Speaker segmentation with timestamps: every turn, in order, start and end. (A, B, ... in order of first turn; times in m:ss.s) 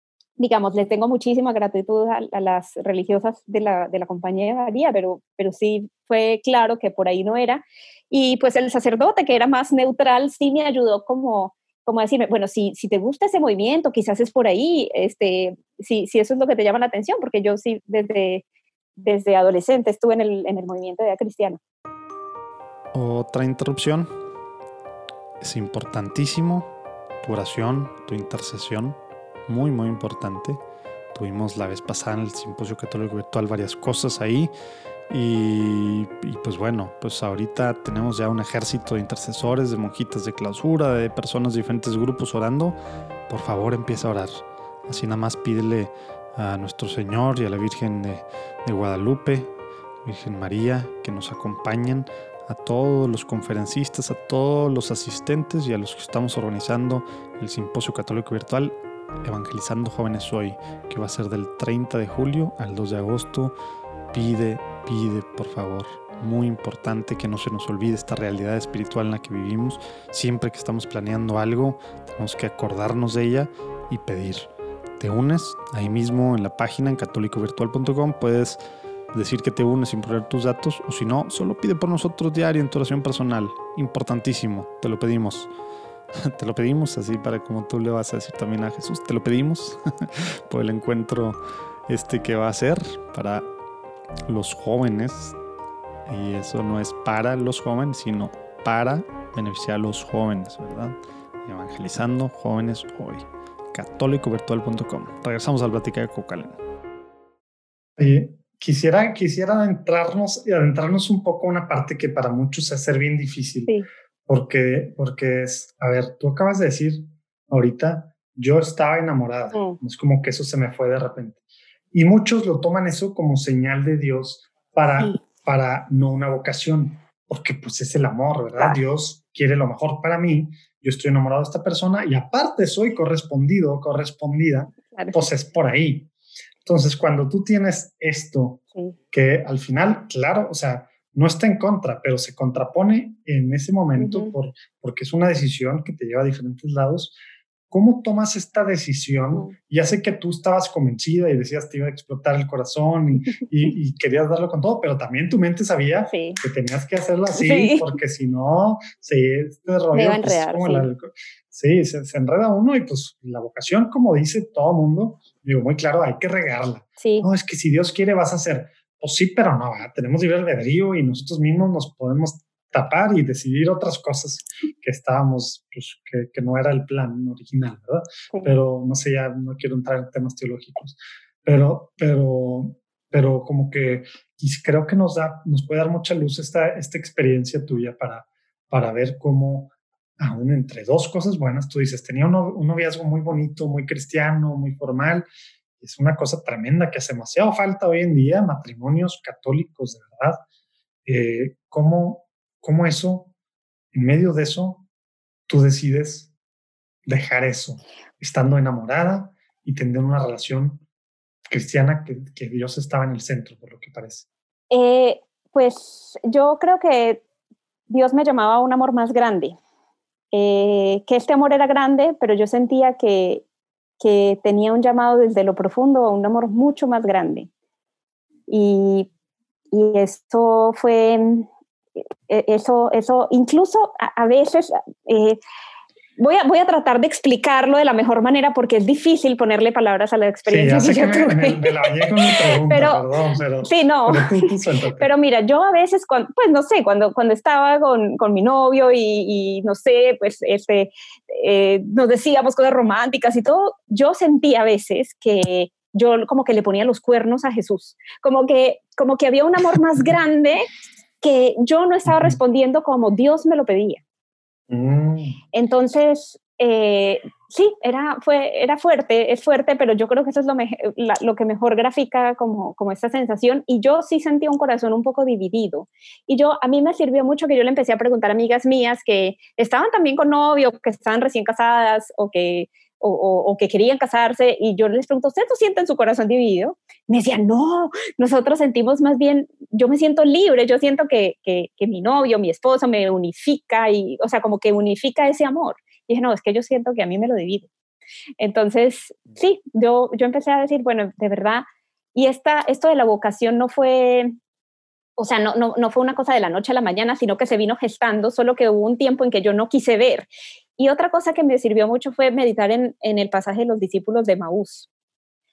0:00.4-0:18.4 A
0:19.0-0:21.6 A
0:22.9-0:24.1 B
0:25.4-0:30.6 B
0:31.1-0:34.5 B
0:35.1-0:42.8 B
0:43.3-0:49.5 B
0:50.0-1:03.5 B
1:04.1-1:18.6 B
1:19.1-1:25.5 B
1:26.2-1:33.4 B
1:34.2-1:35.4 B
1:36.1-1:46.6 B
1:48.0-1:53.8 C
1:54.3-2:01.4 C
2:01.9-2:16.1 C
2:16.6-2:27.2 C
2:24.0-2:24.3 A
2:27.7-3:15.3 C
2:36.1-2:36.4 A
2:37.3-2:37.9 A
2:39.9-2:40.9 A
2:47.0-2:47.3 A
3:15.8-3:20.4 C
3:21.0-3:23.3 C
3:23.9-3:24.8 C
3:25.5-3:26.3 C
3:27.0-3:30.8 C
3:31.5-3:34.3 C
3:34.7-3:37.2 A
3:37.9-3:39.6 A
3:40.3-3:43.4 A
3:44.0-3:47.5 A
3:48.5-3:49.1 A
3:49.7-3:51.5 A
3:52.3-3:55.4 A
3:56.2-4:03.0 A
4:00.5-4:05.1 C
4:03.6-4:04.4 A
4:05.0-4:20.7 A
4:21.2-4:24.0 A
4:22.1-4:22.4 C
4:24.7-4:25.4 C
4:25.5-4:57.7 A
4:58.4-5:04.3 A
5:05.2-5:14.9 A